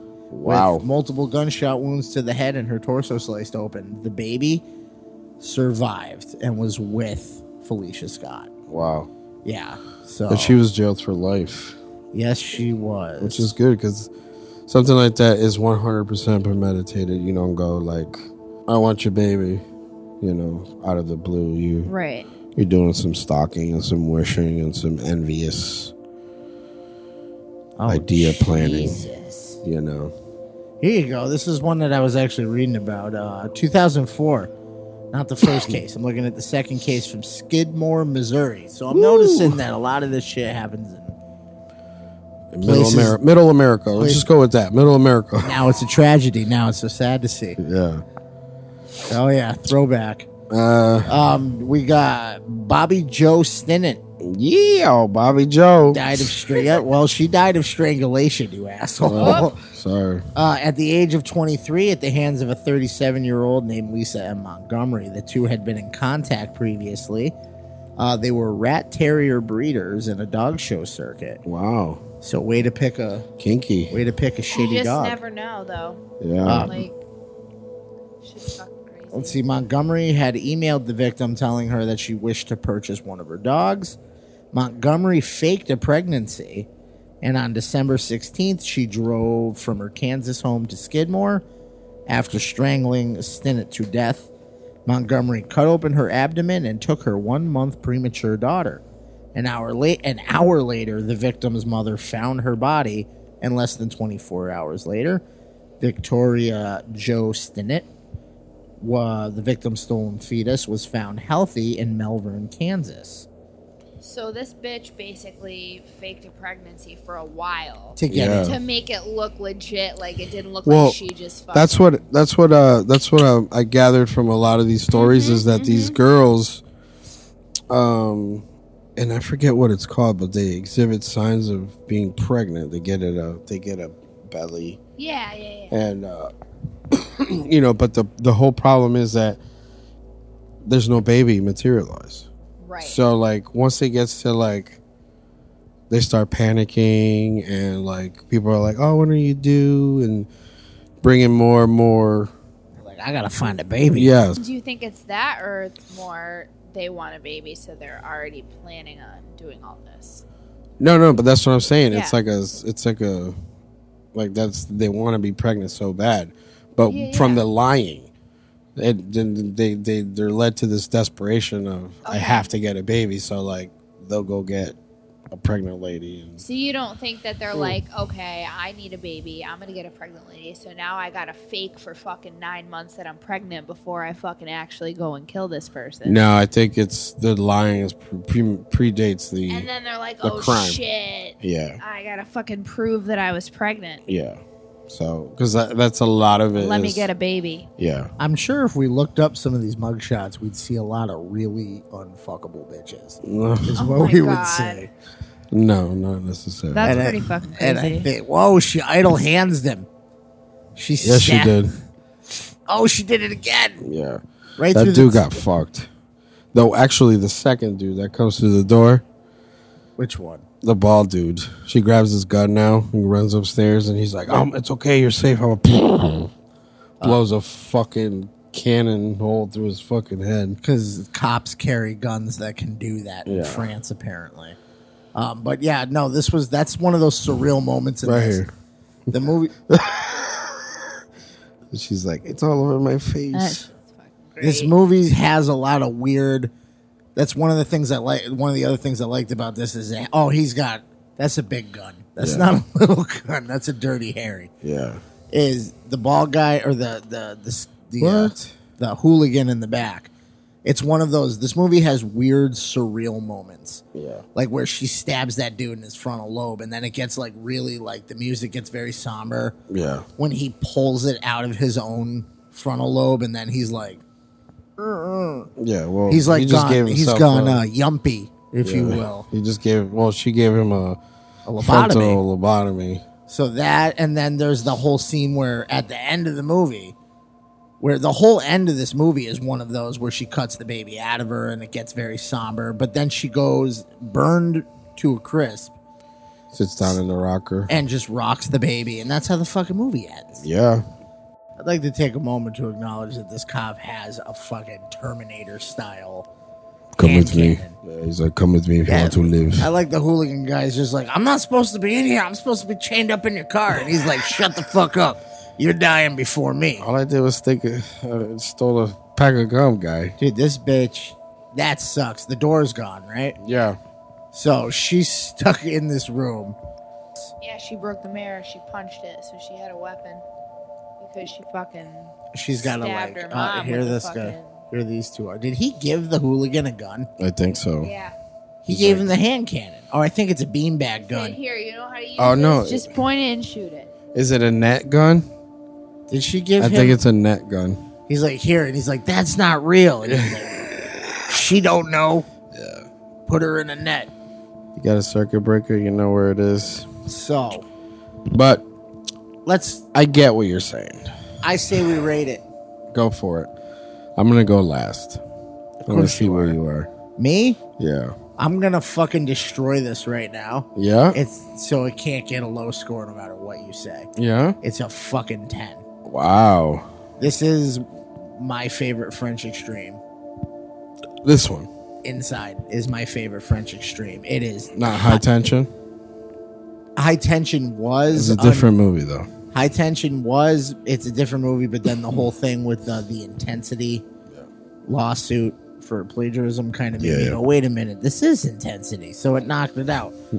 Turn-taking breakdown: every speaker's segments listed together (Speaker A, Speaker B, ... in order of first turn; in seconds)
Speaker A: 0.3-0.8, 8.7-9.1, 10.3-11.8, 13.2-14.1, 14.7-19.6, 20.2-21.9, 22.6-25.9, 27.9-29.0, 29.6-30.1, 38.9-39.6, 42.5-45.6, 47.6-48.0, 50.5-51.2, 54.2-56.1, 59.0-60.3, 71.5-72.0, 73.4-74.0, 76.2-76.8, 118.1-118.6, 120.7-121.0, 121.5-126.6, 127.7-128.4, 129.0-134.8, 135.7-136.3, 136.9-139.4, 140.7-142.3, 142.8-144.8, 145.9-150.3, 151.0-152.3, 153.9-154.4, 160.8-163.3, 164.1-168.1, 168.8-174.8, 175.3-176.4, 186.1-189.7, 190.2-190.8, 191.4-191.8, 194.1-197.1, 197.8-198.1, 203.2-203.8, 205.5-207.1, 211.0-211.8, 213.8-214.2, 214.7-215.9, 216.5-219.0, 220.6-226.3, 227.0-230.6, 233.3-233.7, 238.0-238.5, 239.7-240.6, 241.7-243.7, 252.2-252.5, 254.6-255.0, 258.0-258.5, 263.9-264.2, 269.7-270.1, 275.6-277.6, 278.6-281.0, 281.6-283.0, 296.5-297.7, 300.4-300.8, 306.9-309.7, 316.8-320.1, 323.4-323.8, 337.2-337.9, 338.7-339.1, 342.2-342.9, 344.1-345.3, 346.6-347.8, 350.1-350.7, 352.5-352.9, 354.8-356.9, 358.3-358.6, 359.9-361.1, 362.9-363.5, 364.2-365.2, 365.9-366.9, 367.8-368.2, 370.8-371.2, 374.2-374.6, 376.1-376.9, 381.2-381.7, 384.8-385.7, 388.1-389.3, 397.0-397.4
Speaker B: 0.5-4.7, 5.4-8.5, 9.4-10.6, 12.1-13.5, 27.8-29.6, 30.8-34.5, 35.1-41.2, 42.6-43.2, 44.0-44.3, 45.4-47.6, 49.1-50.3, 51.1-54.0, 55.9-59.6, 60.4-67.3, 68.0-71.4, 72.2-73.3, 73.9-75.2, 76.5-76.9, 79.1-84.0, 84.5-86.7, 87.2-91.4, 92.1-94.3, 94.9-98.8, 99.3-105.2, 105.8-107.9, 108.8-113.3, 118.0-118.6, 152.8-154.1, 198.2-204.9, 206.8-209.9, 210.8-211.6, 212.7-213.8, 214.6-215.4, 220.0-220.5, 230.6-234.6, 235.1-238.4, 239.1-239.5, 244.4-246.5, 247.2-254.5, 255.3-260.1, 260.6-263.8, 264.4-269.6, 270.2-274.0, 274.8-275.5, 276.1-279.3, 281.5-282.2, 283.3-286.9, 287.8-295.8, 297.7-300.4, 301.6-306.3, 307.0-307.8, 308.9-316.9, 320.2-323.4, 324.3-326.6, 332.3-337.1, 338.6-341.4, 346.1-347.0, 348.1-350.7, 351.2-352.3, 353.3-354.1, 357.1-357.7, 359.4-359.9, 361.4-362.4, 365.8-366.6, 367.2-367.6, 368.4-375.8, 377.2-380.0, 382.0-385.2, 387.0-388.7, 389.5-394.0, 394.9-400.1
Speaker C: 21.9-22.3, 59.2-59.5, 74.5-76.0, 76.6-77.0, 78.2-79.4, 114.0-121.9, 124.9-126.0, 135.0-135.8, 142.6-143.0, 154.4-160.2, 166.9-167.4, 172.1-172.5, 176.4-186.2, 189.5-194.0, 196.6-197.7, 203.8-204.9, 206.7-208.1, 243.3-244.7, 327.4-330.2, 331.0-334.6, 337.8-338.1, 341.0-343.9